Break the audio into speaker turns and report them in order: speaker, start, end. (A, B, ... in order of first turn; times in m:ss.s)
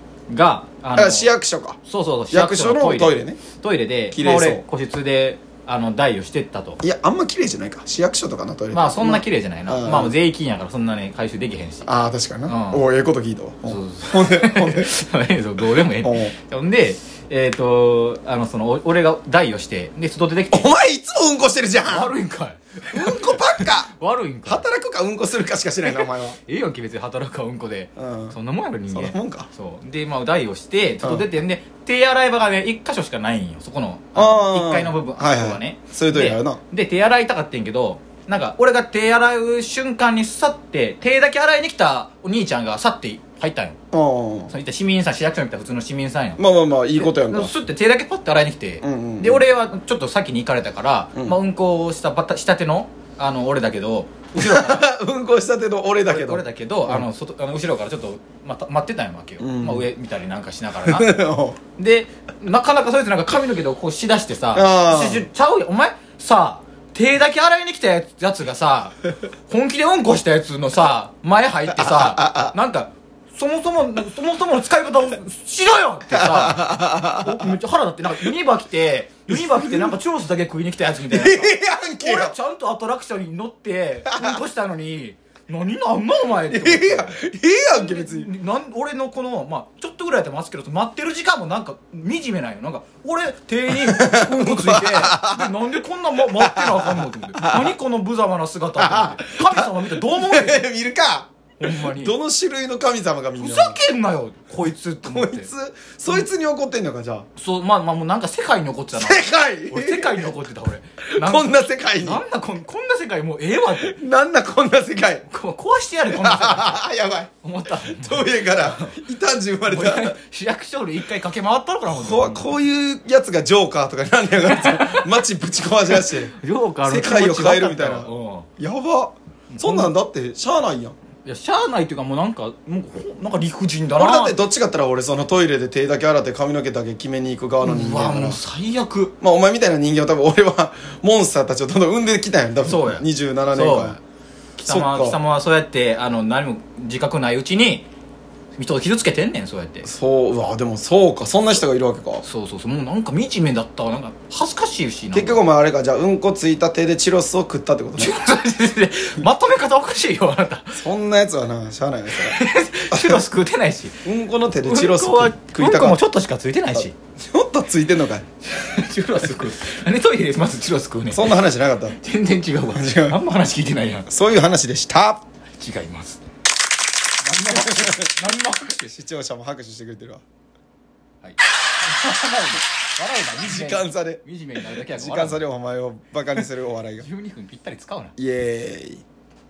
0:00.3-0:01.3 A
0:00.9-0:01.8 B
0:01.8-0:06.8 A
0:02.3-0:03.4 B
0:04.1-0:04.6 B
0:06.8-0:10.1 B
0:08.7-0:11.9 A
0:11.8-0:14.9 B
0:12.5-0:12.8 A
0:13.7-0:20.7 A
0:16.0-0:16.3 B
0:20.5-0:22.1 B
0:21.8-0:24.6 A
0:22.9-0:23.9 B
0:24.4-0:26.4 B
0:25.8-0:43.8 A
0:28.0-0:28.4 B
0:28.9-0:29.5 B
0:34.1-0:36.6 B
0:43.9-0:44.5 B
0:44.5-0:46.4 A
0:46.4-0:47.5 B
0:46.9-0:54.8 A
0:48.8-0:49.4 B
0:54.4-0:57.0 B
0:56.1-1:01.1 A
0:59.4-0:59.9 B
1:00.8-1:01.6 B
1:01.8-1:27.2 A
1:04.5-1:05.3 B
1:11.7-1:12.5 B
1:16.1-1:17.6 B
1:19.3-1:19.9 B
1:21.0-1:22.3 B
1:24.0-1:24.4 B
1:26.4-1:28.3 B
1:27.7-1:40.6 A
1:33.7-1:35.5 B
1:36.2-1:37.8 B
1:38.8-1:43.8 B
1:41.6-1:42.1 A
1:43.4-1:45.5 A
1:45.0-1:47.2 B
1:47.3-1:54.0 A
1:48.9-1:50.3 B
1:51.1-1:52.2 B
1:53.8-1:55.2 B
1:55.3-1:56.8 A
1:56.1-2:00.2 B
1:57.4-1:59.0 A
1:59.7-2:02.5 A
2:01.9-2:06.3 B
2:04.4-2:05.1 A
2:05.9-2:08.5 A
2:06.8-2:11.0 B
2:09.5-2:09.9 A
2:11.2-2:14.4 A
2:14.0-2:18.4 B
2:17.6-2:19.1 A
2:19.2-2:24.0 B
2:22.6-2:24.0 A
2:24.6-2:27.8 A
2:24.6-2:25.2 B
2:28.6-2:29.9 A
2:29.8-2:32.2 B
2:32.2-2:35.4 A
2:35.1-2:38.1 B
2:38.0-2:40.8 A
2:40.8-2:42.4 B
2:42.1-2:44.0 A
2:42.9-2:43.2 B
2:44.0-2:46.0 B
2:44.6-2:46.9 A
2:46.7-2:48.2 B
2:48.5-2:51.4 A
2:51.1-2:52.0 B
2:51.9-2:54.1 A
2:52.7-2:53.2 B
2:54.1-2:55.2 B
2:55.6-2:56.2 A
2:57.2-2:59.0 A
2:57.4-2:58.1 B
2:58.9-3:00.2 B
3:01.2-3:05.4 A
3:03.3-3:04.2 B
3:04.8-3:07.1 B
3:07.0-3:08.1 A
3:08.2-3:09.0 B